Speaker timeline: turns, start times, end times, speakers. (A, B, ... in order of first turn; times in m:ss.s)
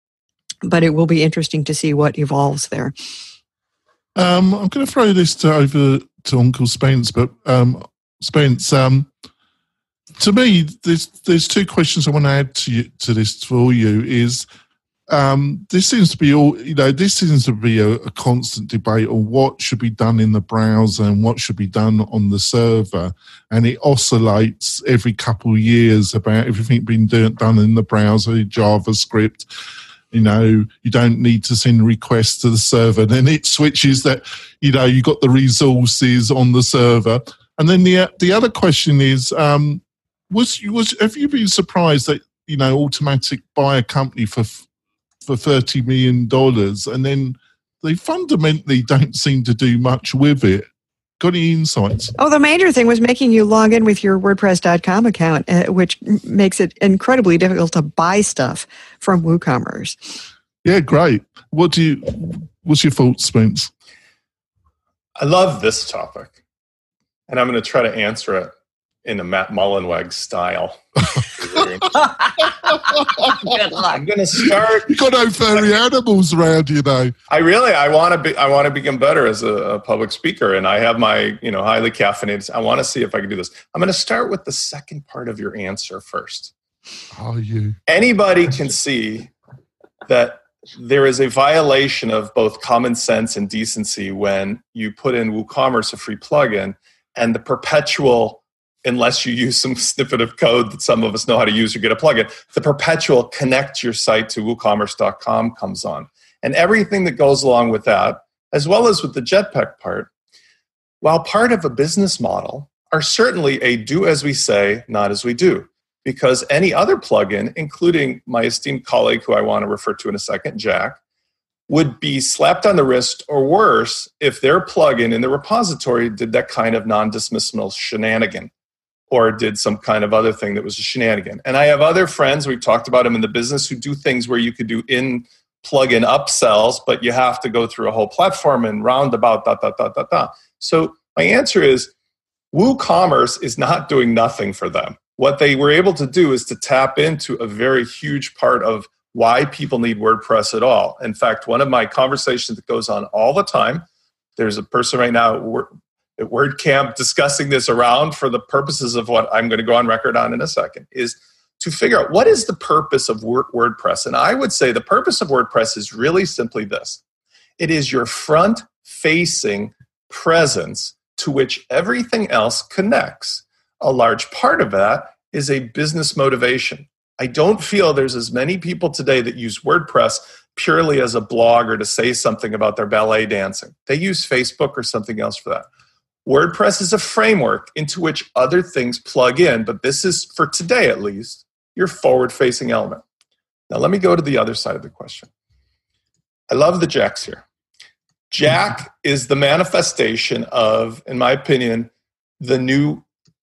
0:00.6-0:02.9 A
0:04.2-0:09.1 B
0:10.2-0:14.4 B
0:15.1-0:29.5 B
0:30.1-0:44.6 B
0:45.3-0:50.7 B
0:51.2-0:52.1 B
0:52.2-1:00.1 A
1:00.6-1:03.7 B
1:05.2-1:06.4 C
1:07.3-1:08.5 C
1:09.0-1:14.9 C
1:13.0-1:13.5 B
1:14.5-1:17.1 B
1:17.3-1:26.5 C
1:27.1-1:27.8 B
1:27.9-1:29.3 C
1:30.1-1:50.1 C
1:51.0-2:01.0 C
2:01.7-2:08.5 C
2:09.1-2:21.9 C
2:22.5-2:33.9 C
2:34.4-2:47.0 C
2:47.6-3:05.7 C
3:06.2-3:13.0 C
3:13.7-3:15.3 C
3:16.5-3:17.4 C
3:18.3-3:23.0 C